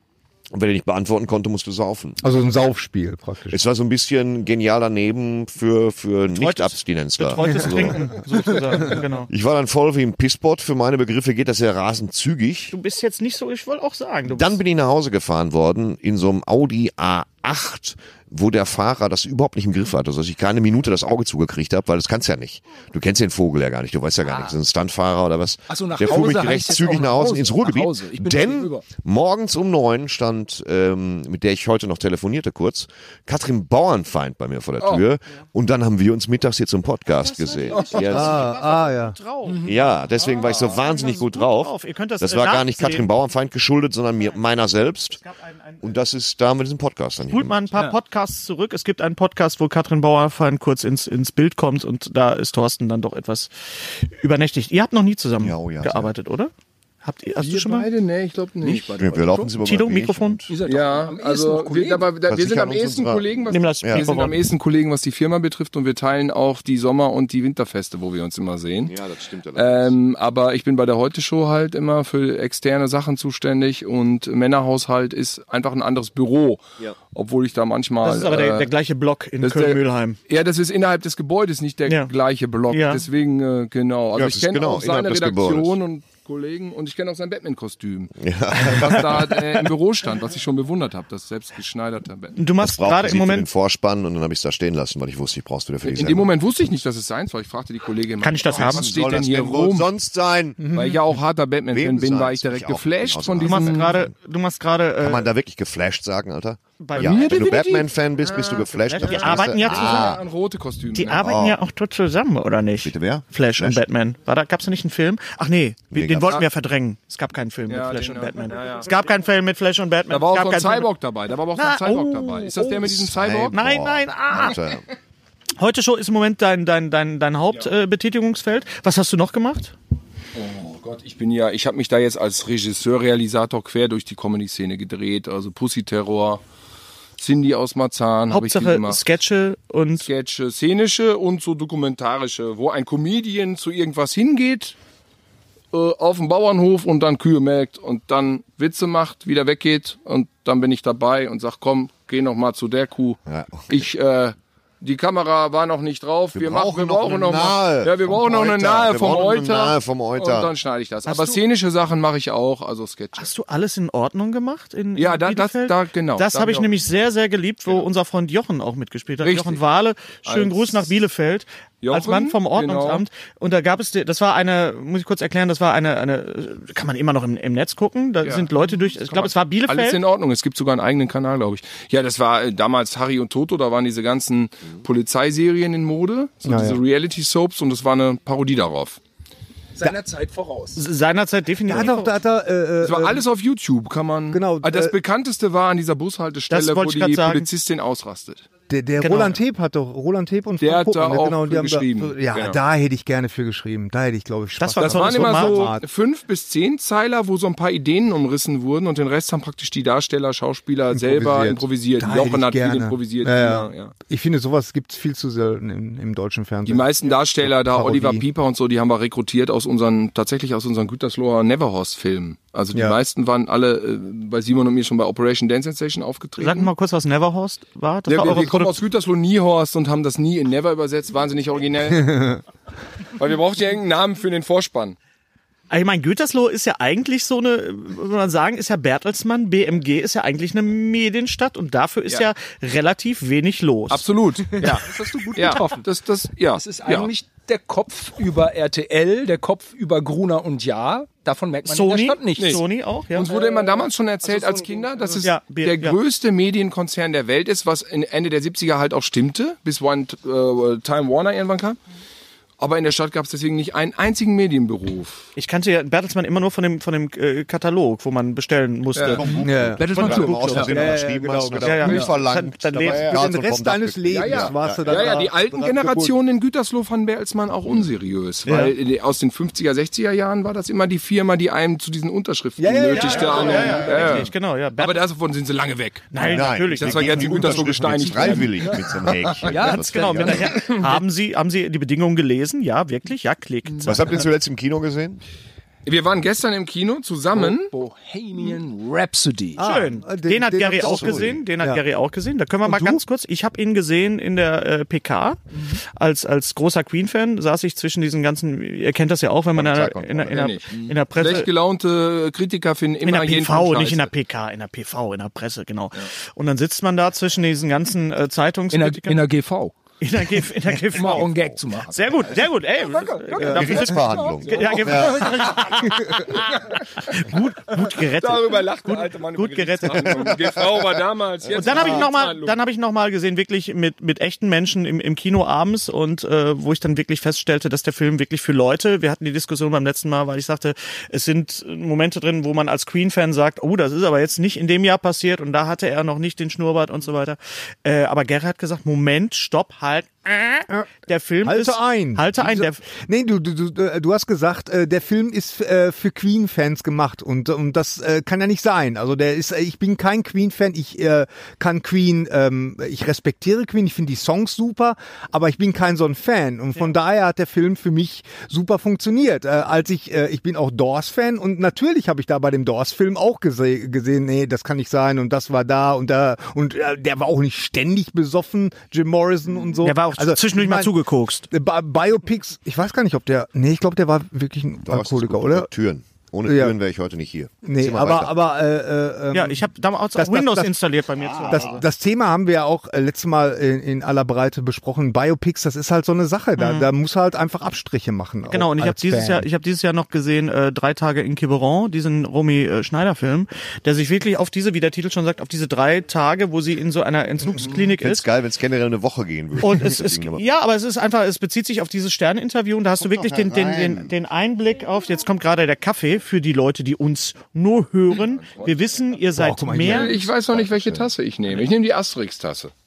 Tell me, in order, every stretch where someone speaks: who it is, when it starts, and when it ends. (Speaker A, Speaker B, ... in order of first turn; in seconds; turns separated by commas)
Speaker A: 0.5-2.2, Speaker B: 2.2-3.6, Speaker A: 3.5-8.2, Speaker C: 6.3-9.3, Speaker A: 8.8-12.7, Speaker C: 12.7-14.6, Speaker A: 14.3-38.5, Speaker D: 25.7-28.8, Speaker C: 37.1-43.1, Speaker B: 38.0-39.2, Speaker D: 39.4-39.7, Speaker A: 39.6-45.2, Speaker C: 45.1-45.9, Speaker A: 45.8-47.7, Speaker C: 47.3-56.5, Speaker A: 55.4-56.1, Speaker C: 57.0-57.9, Speaker E: 57.4-59.0, Speaker D: 58.6-59.5, Speaker A: 59.0-60.5, Speaker C: 59.6-60.4, Speaker D: 60.5-62.1, Speaker E: 60.6-69.0, Speaker A: 62.3-64.1, Speaker C: 63.5-64.4, Speaker A: 68.9-70.0, Speaker E: 69.5-76.6, Speaker E: 77.1-78.7, Speaker C: 78.0-80.2, Speaker E: 79.4-92.4, Speaker C: 82.7-83.0, Speaker A: 84.1-85.8, Speaker A: 88.2-89.7, Speaker C: 92.3-93.5, Speaker A: 92.6-96.4, Speaker E: 95.8-99.9, Speaker C: 98.2-98.9, Speaker A: 98.5-100.8, Speaker B: 100.6-101.0, Speaker E: 100.7-103.9, Speaker A: 101.7-104.1, Speaker C: 103.4-105.3, Speaker A: 105.0-110.2, Speaker C: 106.8-110.1, Speaker E: 107.0-111.2, Speaker C: 110.9-120.9, Speaker A: 111.1-111.6, Speaker A: 112.8-113.8, Speaker A: 115.9-116.5, Speaker E: 117.7-118.9, Speaker E: 120.1-123.5, Speaker C: 121.5-123.0, Speaker A: 122.8-124.8, Speaker C: 123.5-124.6, Speaker C: 125.6-129.7, Speaker E: 130.3-136.4, Speaker E: 137.2-139.0, Speaker C: 138.3-140.1, Speaker E: 140.0-144.8, Speaker E: 145.7-163.3, Speaker A: 153.3-153.9, Speaker A: 156.3-160.5, Speaker C: 161.1-161.4, Speaker C: 163.2-180.0, Speaker E: 164.9-166.7, Speaker E: 169.2-169.6, Speaker E: 170.2-170.9, Speaker E: 171.8-173.0, Speaker E: 178.2-189.0, Speaker B: 186.4-186.8, Speaker D: 189.7-190.8, Speaker C: 190.8-192.1, Speaker B: 191.7-193.2, Speaker E: 192.8-198.4, Speaker B: 194.3-194.9, Speaker C: 196.5-197.5, Speaker B: 198.7-205.8, Speaker C: 199.0-199.4, Speaker E: 200.6-202.6, Speaker C: 204.6-205.7, Speaker E: 204.8-213.9, Speaker B: 210.9-218.2, Speaker E: 216.7-226.7, Speaker C: 226.4-228.8, Speaker E: 228.1-232.4, Speaker B: 232.1-232.4, Speaker E: 233.2-235.0, Speaker C: 235.7-244.7, Speaker E: 243.9-247.1, Speaker D: 244.6-245.9, Speaker D: 246.5-252.6, Speaker C: 251.7-253.3, Speaker E: 252.4-252.6, Speaker E: 253.1-261.8, Speaker D: 253.2-255.2, Speaker C: 255.2-256.0, Speaker E: 262.6-265.3, Speaker C: 265.4-270.9, Speaker E: 268.9-269.2, Speaker A: 269.0-275.3, Speaker B: 269.4-272.1, Speaker D: 269.8-270.8, Speaker C: 271.5-273.2, Speaker B: 272.8-276.1, Speaker E: 274.1-289.1, Speaker C: 278.5-278.7, Speaker B: 282.6-284.2, Speaker C: 282.9-285.0, Speaker C: 286.1-287.8, Speaker A: 286.2-290.7, Speaker D: 289.4-290.6, Speaker C: 289.5-294.2, Speaker E: 290.5-291.0, Speaker A: 293.8-295.2, Speaker E: 295.9-297.7, Speaker D: 297.3-299.6, Speaker B: 299.6-301.8, Speaker C: 299.6-311.5, Speaker A: 300.8-301.4, Speaker D: 302.7-303.0, Speaker D: 305.5-305.8, Speaker A: 309.5-310.4, Speaker E: 309.7-314.1, Speaker C: 313.0-319.3, Speaker D: 318.7-319.8, Speaker C: 320.0-330.4, Speaker D: 320.9-322.2, Speaker D: 322.9-325.9, Speaker A: 323.4-325.3, Speaker E: 328.0-332.6, Speaker C: 331.5-352.9, Speaker B: 351.4-380.9, Speaker C: 379.8-381.5, Speaker B: 381.5-385.7, Speaker A: 384.9-388.4, Speaker B: 386.4-386.7, Speaker B: 387.6-390.8, Speaker C: 389.3-391.8, Speaker B: 391.5-399.5, Speaker C: 396.6-396.9, Speaker C: 398.5-408.2, Speaker A: 408.0-410.4, Speaker C: 409.6-420.2, Speaker A: 413.0-414.1, Speaker E: 418.2-418.7, Speaker B: 419.3-420.2, Speaker E: 419.8-422.7, Speaker A: 420.3-421.1